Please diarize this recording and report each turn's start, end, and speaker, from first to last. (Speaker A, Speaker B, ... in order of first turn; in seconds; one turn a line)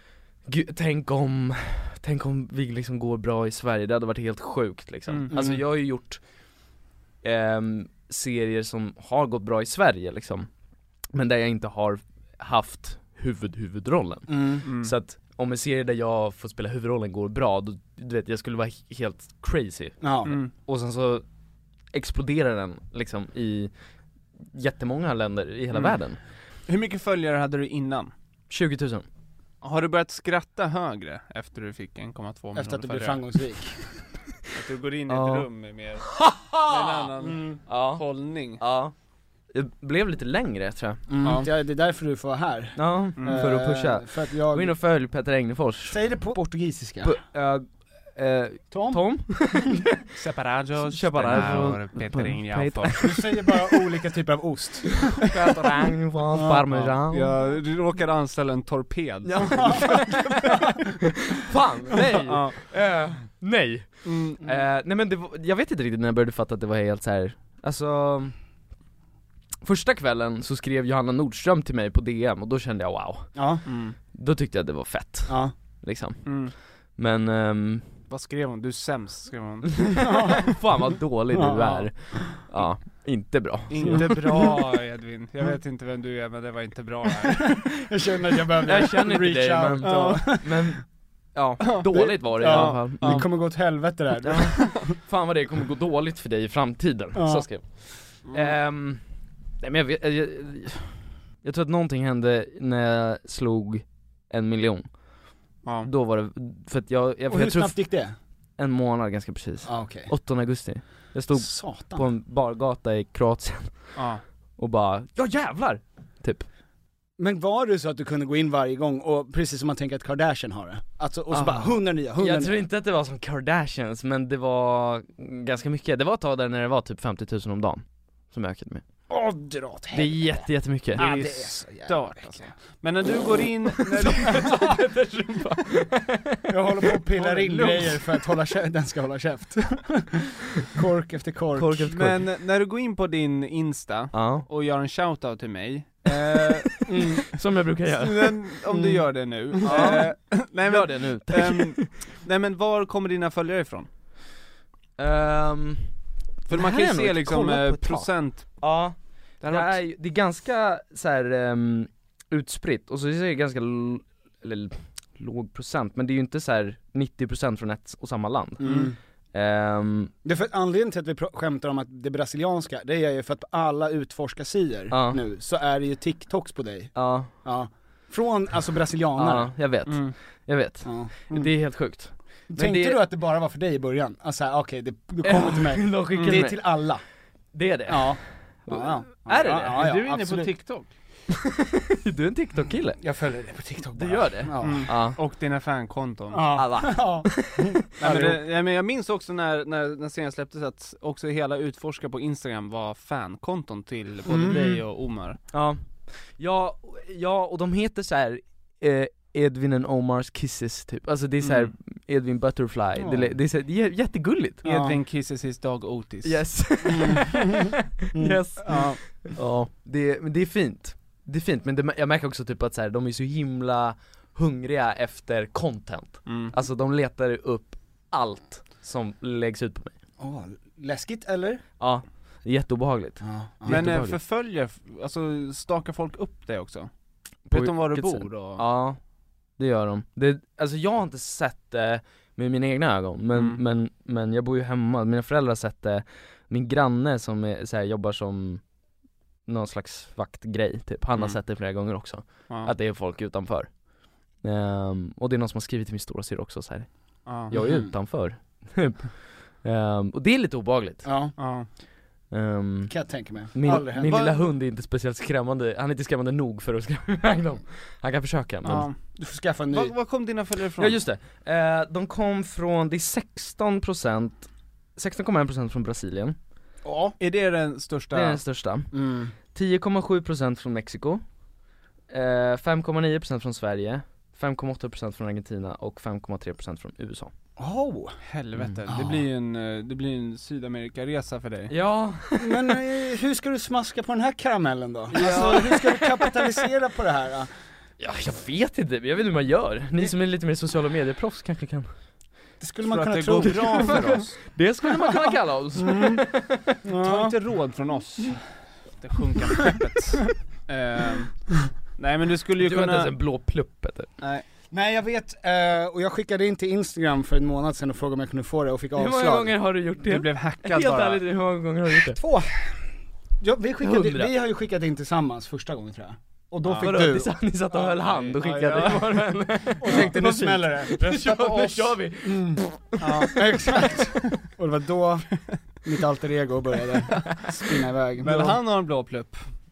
Speaker A: 0.5-6.2
Speaker B: 5.1-5.4
Speaker C: 5.3-5.6
Speaker A: 7.2-10.5
Speaker A: 11.1-21.2
Speaker C: 14.3-14.7
Speaker B: 14.7-14.9
Speaker C: 20.0-20.4
Speaker B: 20.3-20.5
Speaker A: 21.9-23.7
Speaker A: 24.5-26.2
Speaker B: 25.7-26.0
Speaker B: 26.7-28.1
Speaker A: 28.5-29.1
Speaker B: 29.6-33.2
Speaker C: 32.5-33.8
Speaker B: 34.5-38.6
Speaker A: 35.1-35.5
Speaker A: 36.1-37.1
Speaker C: 37.2-37.6
Speaker A: 37.7-38.9
Speaker A: 39.5-41.0
Speaker C: 41.1-44.8
Speaker B: 41.2-41.5
Speaker A: 42.8-46.0
Speaker B: 43.2-43.5
Speaker C: 45.9-47.2
Speaker A: 47.0-49.9
Speaker C: 48.7-49.8
Speaker B: 50.1-53.2
Speaker A: 50.9-53.1
Speaker C: 51.3-51.6
Speaker C: 53.0-55.1
Speaker A: 55.2-57.4
Speaker C: 56.3-57.0
Speaker B: 57.1-60.2
Speaker A: 59.3-60.5
Speaker C: 59.5-60.8
Speaker A: 61.3-68.3
Speaker B: 62.2-62.8
Speaker B: 64.0-64.4
Speaker A: 69.6-77.9
Speaker C: 73.3-73.6
Speaker B: 73.7-74.0
Speaker C: 75.3-75.5
Speaker B: 76.2-76.5
Speaker B: 78.1-80.2
Speaker C: 80.0-80.6
Speaker A: 80.4-84.5
Speaker C: 81.3-82.4
Speaker B: 83.7-87.6
Speaker C: 83.8-84.5
Speaker C: 87.4-90.7
Speaker A: 88.7-90.8
Speaker B: 89.8-90.3
Speaker A: 91.3-93.3
Speaker B: 91.6-93.5
Speaker C: 91.9-94.8
Speaker A: 94.3-99.0
Speaker B: 94.3-94.8
Speaker C: 97.1-97.5
Speaker B: 98.2-98.5
Speaker A: 99.6-105.0
Speaker B: 105.6-105.9
Speaker A: 105.8-107.9
Speaker C: 107.3-108.2
Speaker A: 108.6-114.0
Speaker C: 109.7-110.1
Speaker C: 111.3-112.0
Speaker B: 114.0-114.2
Speaker A: 114.6-116.5
Speaker C: 117.2-122.6
Speaker A: 121.3-128.8
Speaker C: 129.1-132.4
Speaker A: 129.9-131.5
Speaker B: 131.0-131.3
Speaker B: 131.9-134.8
Speaker A: 134.1-136.3
Speaker C: 136.5-141.9
Speaker B: 137.2-138.0
Speaker A: 141.6-142.2
Speaker B: 141.9-147.2
Speaker A: 144.1-144.5
Speaker A: 146.1-146.4
Speaker C: 146.9-147.2
Speaker A: 147.3-148.6
Speaker B: 147.9-153.9
Speaker C: 148.7-149.0
Speaker C: 149.6-150.0
Speaker A: 149.6-151.9
Speaker A: 155.0-170.1
Speaker B: 156.5-158.7
Speaker B: 159.4-159.8
Speaker C: 168.6-169.0
Speaker B: 168.6-168.9
Speaker C: 170.2-179.5
Speaker A: 174.9-175.2
Speaker A: 176.9-177.3
Speaker A: 179.2-183.0
Speaker B: 179.9-180.2
Speaker C: 180.8-181.5
Speaker C: 182.5-187.0
Speaker A: 185.2-186.8
Speaker B: 186.1-186.4
Speaker A: 187.5-189.8
Speaker C: 187.9-190.5
Speaker B: 189.6-190.9
Speaker A: 192.0-193.0
Speaker C: 193.0-194.9
Speaker A: 194.0-195.2
Speaker B: 194.6-196.7
Speaker C: 196.3-198.4
Speaker A: 196.6-197.6
Speaker B: 198.0-205.4
Speaker C: 204.3-204.8
Speaker A: 205.5-214.7
Speaker B: 211.4-211.7
Speaker C: 213.0-213.4
Speaker C: 214.6-215.0
Speaker B: 214.6-216.6
Speaker A: 216.2-229.9
Speaker C: 216.8-219.0
Speaker B: 218.7-219.0
Speaker B: 226.3-226.5
Speaker C: 230.2-231.6
Speaker A: 231.8-234.2
Speaker C: 233.2-233.9
Speaker B: 233.7-236.9
Speaker B: 237.5-238.7
Speaker A: 237.5-239.0
Speaker A: 239.6-248.6
Speaker B: 243.3-243.6
Speaker A: 249.5-253.8
Speaker A: 254.3-261.1
Speaker B: 257.3-257.5
Speaker C: 257.5-257.9
Speaker C: 261.0-261.4
Speaker B: 261.4-261.7
Speaker A: 262.3-268.9
Speaker C: 262.9-264.3
Speaker B: 263.7-264.4
Speaker B: 268.6-269.0
Speaker C: 269.1-269.9
Speaker B: 269.7-271.0
Speaker A: 270.8-276.4
Speaker C: 276.8-277.2
Speaker B: 277.2-278.4
Speaker A: 278.1-278.9
Speaker C: 278.9-279.3
Speaker A: 279.5-281.2
Speaker A: 282.1-287.3
Speaker C: 287.6-288.2
Speaker B: 288.3-291.7
Speaker C: 288.9-289.2
Speaker A: 291.7-292.8
Speaker C: 292.4-297.5
Speaker A: 295.1-296.5
Speaker B: 295.2-295.5
Speaker A: 298.0-301.9
Speaker C: 302.6-304.2
Speaker B: 302.8-304.4
Speaker A: 303.4-306.7
Speaker C: 305.8-306.3
Speaker C: 306.8-307.4
Speaker B: 307.0-313.1
Speaker A: 312.6-314.1
Speaker C: 314.7-319.5
Speaker A: 319.0-322.2
Speaker B: 320.1-321.2
Speaker C: 322.1-322.9
Speaker C: 323.4-327.4
Speaker A: 323.8-324.3
Speaker B: 326.6-326.9
Speaker A: 326.8-333.4
Speaker B: 327.7-329.3
Speaker C: 329.8-332.6
Speaker B: 329.8-330.1
Speaker B: 333.0-333.5
Speaker C: 333.3-338.6
Speaker B: 338.2-339.5